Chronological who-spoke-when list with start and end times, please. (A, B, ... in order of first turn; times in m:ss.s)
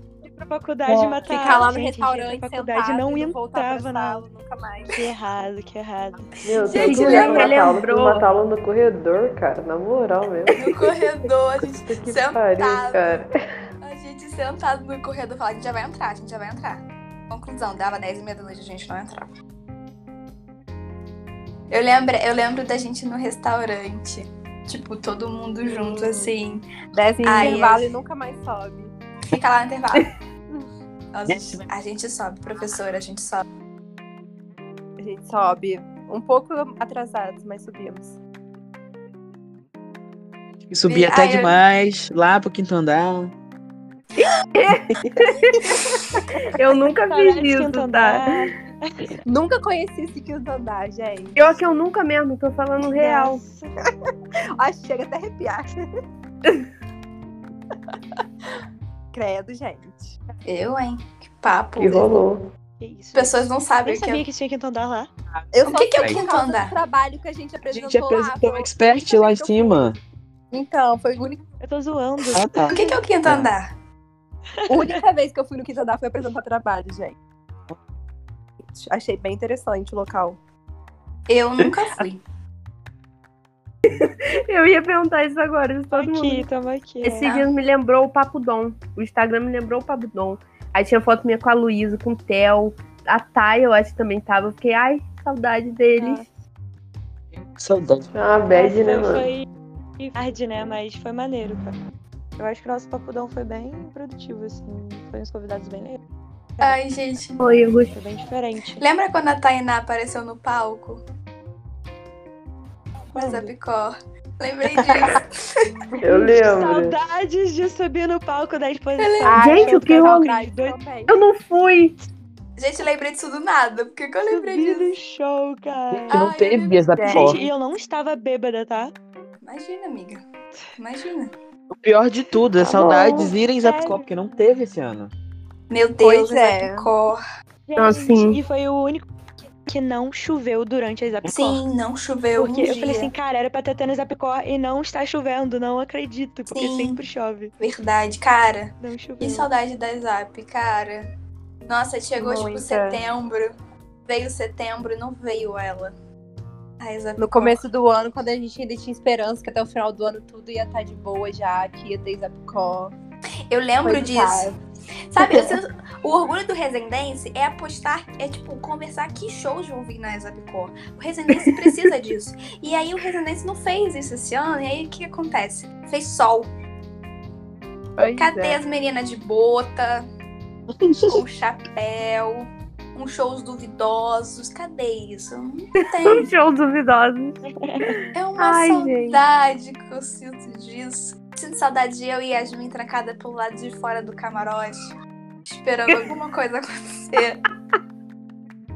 0:00.2-0:04.2 A
0:01.2-0:05.0 B
0:04.9-0:06.3 A
0:06.4-0:10.8 C
0:06.5-0:07.7 D
0:06.8-0:08.3 E
0:10.6-0:13.2 D
0:11.6-0:13.3 C
0:13.8-0:19.3 D
0:21.7-0:26.7 D
0:25.6-0:26.3 B
0:26.9-0:28.9 B
0:27.2-0:27.9 D
0:29.3-0:30.1 D
0:31.1-0:33.4 D
0:31.3-0:31.7 F
0:35.0-0:38.2 B
0:40.7-0:43.3 F
0:40.9-0:41.6 D
0:44.6-0:45.6 E
0:46.5-0:48.4 E
0:47.1-0:49.1 A
0:49.3-0:51.4 B
0:51.4-0:53.4 E
0:52.9-0:53.7 A
0:54.6-0:55.8 B
0:59.1-1:00.2 B
1:00.4-1:02.2 D
1:01.8-1:02.5 C
1:02.8-1:05.1 A
1:03.1-1:04.2 D
1:05.3-1:06.2 F
1:05.5-1:09.9 B
1:05.6-1:06.8 D
1:07.7-1:10.0 F
1:10.5-1:11.4 B
1:11.6-1:12.6 A
1:12.3-1:13.5 F
1:12.7-1:13.7 D
1:14.6-1:15.0 A
1:14.7-1:17.2 B
1:18.7-1:20.4 B
1:21.3-1:22.2 D
1:24.0-1:26.5 E
1:25.9-1:27.3 A
1:27.0-1:36.2 E
1:27.2-1:27.5 D
1:36.0-1:36.3 A
1:37.3-1:38.1 F
1:38.1-1:39.3 C
1:38.5-1:41.8 A
1:42.4-1:46.0 A
1:46.6-1:47.4 D
1:47.4-1:48.0 E
1:47.9-1:48.8 A
1:48.8-1:51.0 D
1:53.1-1:55.3 D
1:53.2-1:53.5 A
1:56.0-1:57.0 C
1:56.1-2:00.8 A
1:59.0-1:59.4 D
1:59.2-2:01.2 B
1:59.4-2:00.3 E
2:01.1-2:02.0 E
2:02.6-2:05.0 D
2:04.3-2:06.2 A
2:05.9-2:07.4 F
2:06.1-2:07.1 D
2:07.0-2:07.3 B
2:07.1-2:08.9 A
2:09.4-2:10.2 D
2:10.8-2:11.3 D
2:11.7-2:15.1 F
2:12.8-2:13.3 E
2:13.6-2:14.0 A
2:15.7-2:17.2 D
2:16.0-2:16.9 B
2:17.7-2:19.1 A
2:17.8-2:18.4 E
2:19.7-2:21.6 A
2:21.3-2:23.1 D
2:22.4-2:27.5 A
2:26.5-2:27.0 D
2:27.6-2:31.1 D
2:28.8-2:29.5 A
2:31.7-2:33.5 D
2:32.2-2:33.0 B
2:34.1-2:35.9 D
2:36.8-2:37.6 D
2:37.2-2:42.9 B
2:43.5-2:44.5 D
2:43.8-2:44.6 B
2:45.1-2:56.5 D
2:58.0-2:58.6 B
2:58.2-3:00.1 D
3:01.0-3:06.3 D
3:06.0-3:09.2 E
3:07.5-3:08.0 A
3:08.1-3:15.0 D
3:15.5-3:17.4 D